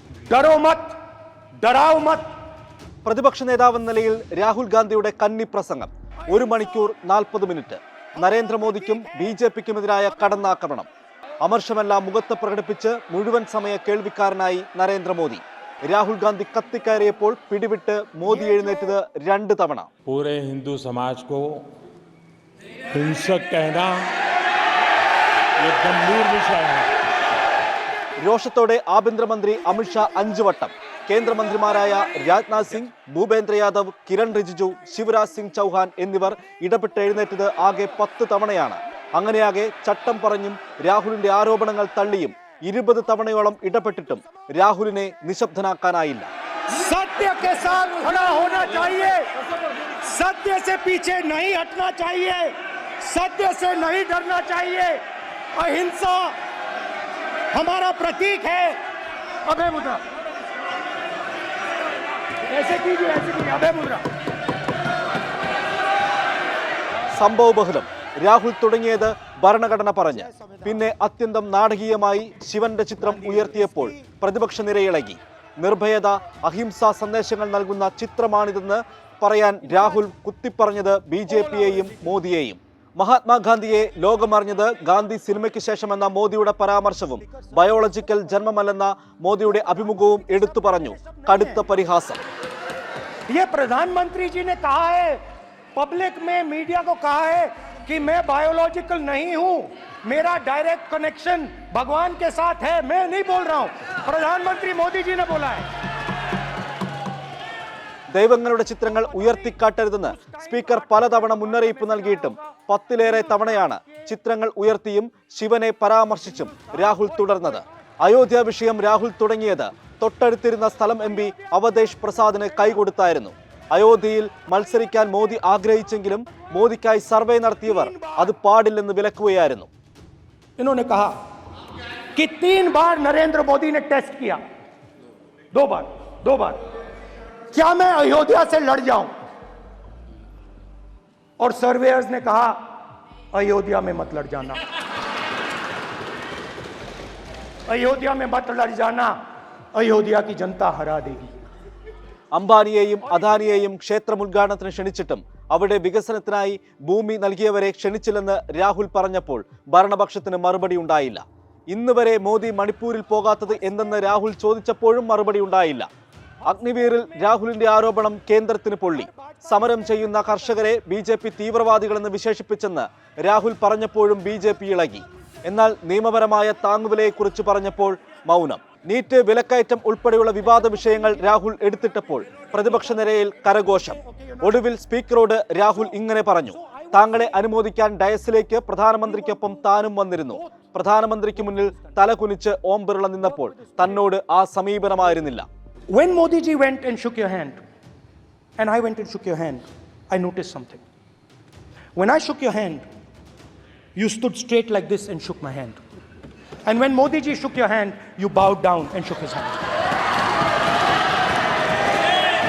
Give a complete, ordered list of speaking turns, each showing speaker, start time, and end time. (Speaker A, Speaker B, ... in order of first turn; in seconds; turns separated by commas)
Speaker A: 0.3-1.0, Speaker A: 1.6-2.3, Speaker B: 3.0-10.9, Speaker B: 11.4-19.9, Speaker C: 20.0-21.7, Speaker C: 22.9-24.1, Speaker C: 25.6-26.9, Speaker B: 28.2-46.3, Speaker A: 46.7-56.4, Speaker A: 57.5-58.9, Speaker A: 59.4-60.2, Speaker A: 62.4-64.1, Speaker B: 67.1-92.2, Speaker A: 70.3-70.8, Speaker A: 73.0-74.0, Speaker A: 81.3-81.9, Speaker A: 90.1-91.6, Speaker A: 93.3-105.7, Speaker B: 108.1-129.7, Speaker A: 110.1-112.3, Speaker A: 127.7-128.2, Speaker A: 130.6-131.2, Speaker A: 132.1-134.4, Speaker A: 135.5-136.7, Speaker A: 137.5-139.2, Speaker A: 141.4-144.6, Speaker A: 147.7-149.2, Speaker A: 149.7-151.4, Speaker B: 152.3-165.9, Speaker B: 166.4-195.4, Speaker A: 182.8-184.6, Speaker A: 186.6-187.4, Speaker A: 189.0-189.7, Speaker A: 190.2-190.7, Speaker A: 191.5-192.0, Speaker A: 193.3-194.0, Speaker A: 195.9-197.6, Speaker A: 198.6-200.8, Speaker A: 201.9-202.8, Speaker A: 203.9-205.8, Speaker A: 206.7-209.6